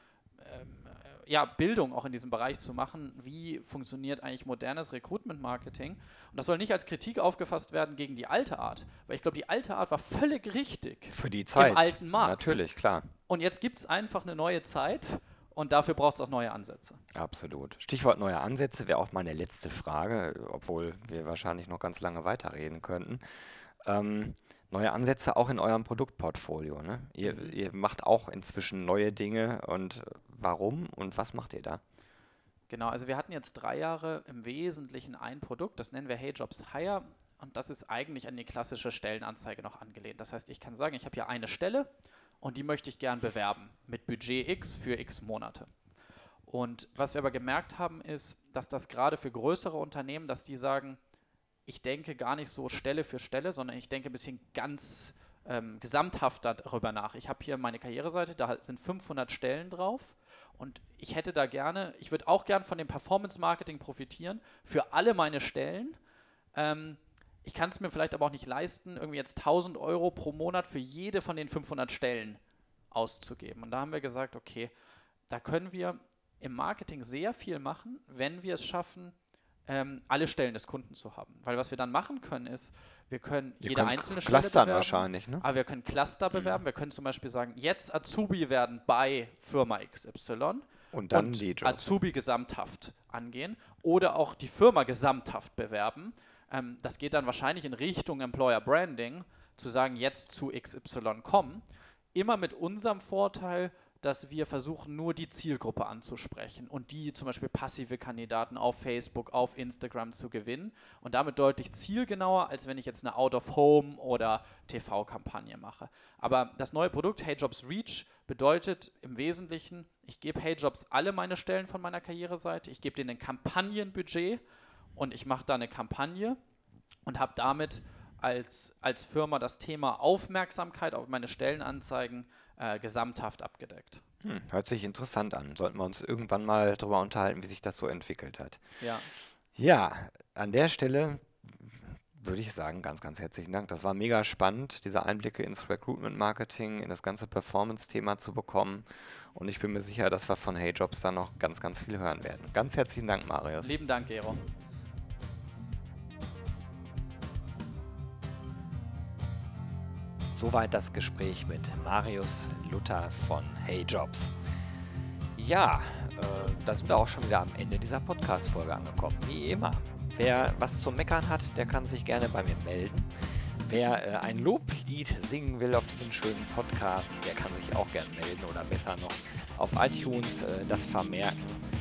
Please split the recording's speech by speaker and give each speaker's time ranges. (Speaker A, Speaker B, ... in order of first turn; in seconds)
Speaker A: 0.4-12.6, 13.3-17.0, 27.3-27.6, 32.7-41.9, 42.4-45.7, 46.5-51.0, 51.7-66.0, 66.5-72.4, 72.9-74.7, 75.3-79.1, 79.7-124.4, 125.0-126.4, 127.1-134.0, 138.8-139.1, 153.6-154.4
Speaker B: 11.1-13.1, 17.1-23.2, 23.8-31.8, 83.6-85.5, 86.3-86.6, 90.9-91.9, 134.2-138.6, 139.6-153.8, 160.3-164.4, 165.4-181.4